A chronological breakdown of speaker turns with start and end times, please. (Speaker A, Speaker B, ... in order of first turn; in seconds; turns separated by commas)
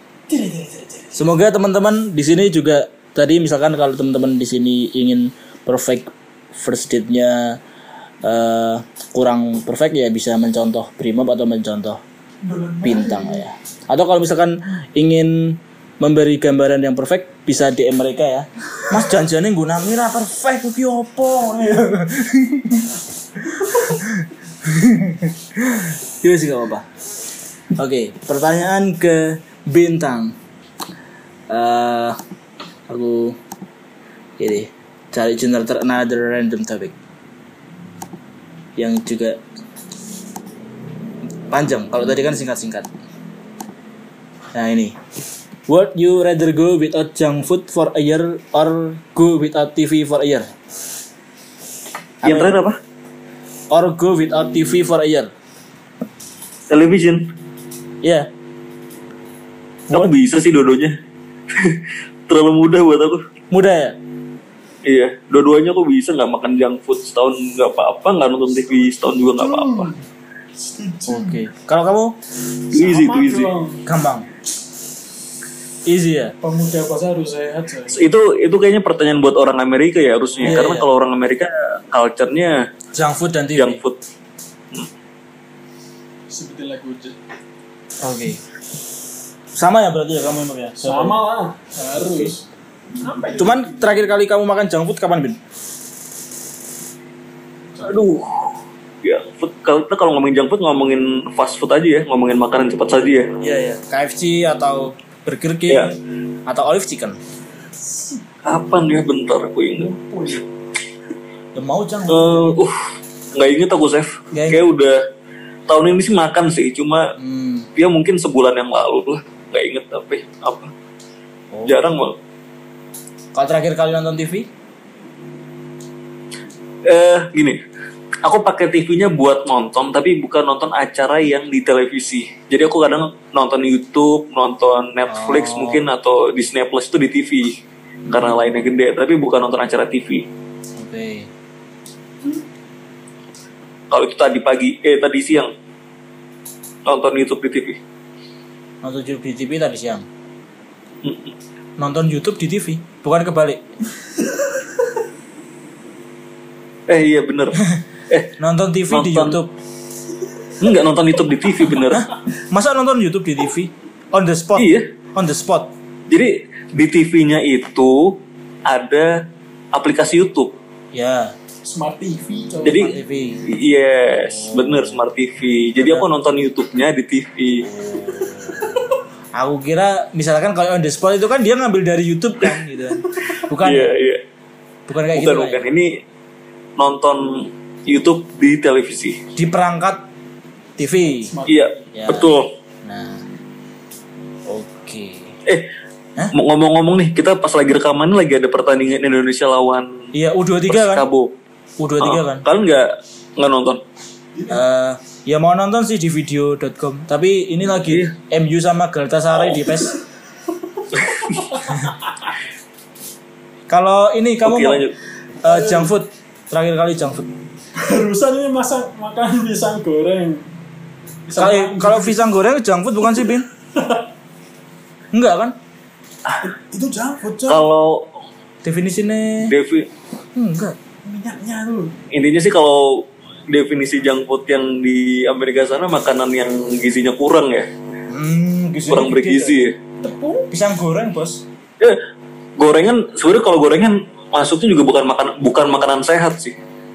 Speaker A: 0.3-1.2, Speaker B: 1.1-7.6, Speaker B: 8.2-12.0, Speaker A: 12.4-13.4, Speaker B: 12.8-22.9, Speaker B: 23.8-26.9, Speaker B: 27.8-30.4, Speaker B: 31.5-32.2, Speaker B: 32.9-33.4, Speaker B: 34.4-36.9, Speaker B: 38.8-39.4, Speaker B: 41.5-42.9, Speaker B: 44.5-45.0, Speaker B: 45.7-50.5, Speaker B: 52.2-52.6, Speaker C: 52.2-52.8, Speaker B: 53.7-55.3, Speaker C: 56.7-57.3, Speaker B: 58.0-58.3, Speaker C: 59.9-61.0, Speaker C: 61.5-63.2, Speaker B: 63.5-64.0, Speaker C: 64.8-69.9, Speaker A: 69.4-70.0, Speaker A: 70.5-71.4, Speaker B: 71.1-72.2, Speaker C: 72.7-73.5, Speaker A: 72.7-73.8, Speaker B: 73.8-74.3, Speaker B: 75.9-76.4, Speaker A: 76.4-78.0, Speaker C: 77.9-82.7, Speaker A: 80.3-80.6, Speaker B: 80.5-80.9, Speaker B: 83.0-83.8, Speaker C: 83.6-84.0, Speaker A: 86.3-87.2, Speaker B: 88.0-88.4, Speaker B: 89.5-91.2, Speaker A: 90.8-92.5, Speaker B: 92.0-92.3, Speaker A: 93.0-93.9, Speaker B: 93.4-95.4, Speaker C: 97.8-103.4, Speaker B: 103.4-105.9, Speaker B: 106.5-107.2, Speaker A: 107.9-108.2, Speaker C: 108.4-109.9, Speaker A: 109.8-110.4, Speaker B: 111.5-112.6, Speaker C: 112.1-115.0, Speaker B: 114.3-114.6, Speaker C: 115.7-117.1, Speaker B: 117.2-117.7, Speaker C: 117.8-120.7, Speaker B: 121.5-121.8, Speaker C: 121.7-122.2, Speaker B: 123.3-124.5, Speaker C: 126.8-127.6, Speaker C: 128.2-137.6, Speaker B: 135.1-135.8, Speaker B: 138.1-138.4, Speaker C: 138.1-140.3, Speaker B: 140.8-141.3, Speaker C: 143.9-145.5, Speaker C: 146.9-147.8, Speaker B: 148.8-150.1, Speaker C: 151.0-151.3, Speaker B: 151.8-153.6, Speaker A: 154.4-154.7, Speaker C: 156.9-158.3, Speaker B: 158.4-159.5, Speaker C: 158.9-159.4, Speaker C: 160.6-162.1, Speaker B: 161.9-165.7, Speaker C: 164.6-164.9, Speaker C: 166.1-170.5, Speaker B: 170.9-171.3, Speaker A: 171.6-172.9, Speaker C: 172.6-177.7, Speaker B: 172.8-173.5, Speaker B: 174.3-175.0, Speaker B: 177.9-178.7, Speaker A: 178.2-178.8, Speaker B: 179.3-183.9, Speaker C: 183.6-184.2, Speaker B: 184.9-185.7, Speaker C: 185.1-186.0, Speaker C: 186.8-189.2, Speaker B: 189.3-190.1, Speaker B: 190.8-191.3, Speaker A: 191.0-191.8, Speaker C: 191.5-192.5, Speaker B: 191.9-192.3, Speaker B: 192.8-193.2, Speaker B: 194.5-195.3, Speaker C: 196.3-200.1, Speaker B: 200.1-201.1, Speaker C: 200.7-201.3, Speaker B: 201.8-202.4, Speaker C: 202.0-203.8, Speaker B: 204.5-209.9, Speaker C: 207.8-208.1, Speaker A: 210.5-211.0, Speaker C: 210.9-211.5, Speaker A: 211.5-212.3, Speaker B: 213.7-214.8, Speaker C: 214.4-215.0, Speaker B: 215.4-217.3, Speaker A: 215.4-215.9, Speaker A: 217.8-220.5, Speaker A: 221.3-222.2, Speaker B: 221.4-223.4, Speaker A: 223.7-224.1, Speaker B: 225.1-225.6, Speaker A: 226.4-227.7, Speaker C: 227.5-228.1, Speaker B: 228.6-229.5, Speaker C: 229.4-229.9, Speaker B: 230.3-230.8, Speaker A: 231.0-232.0, Speaker C: 232.1-237.7, Speaker B: 238.1-239.7, Speaker C: 238.9-239.8, Speaker A: 240.0-240.5, Speaker B: 240.5-241.4, Speaker C: 242.6-246.6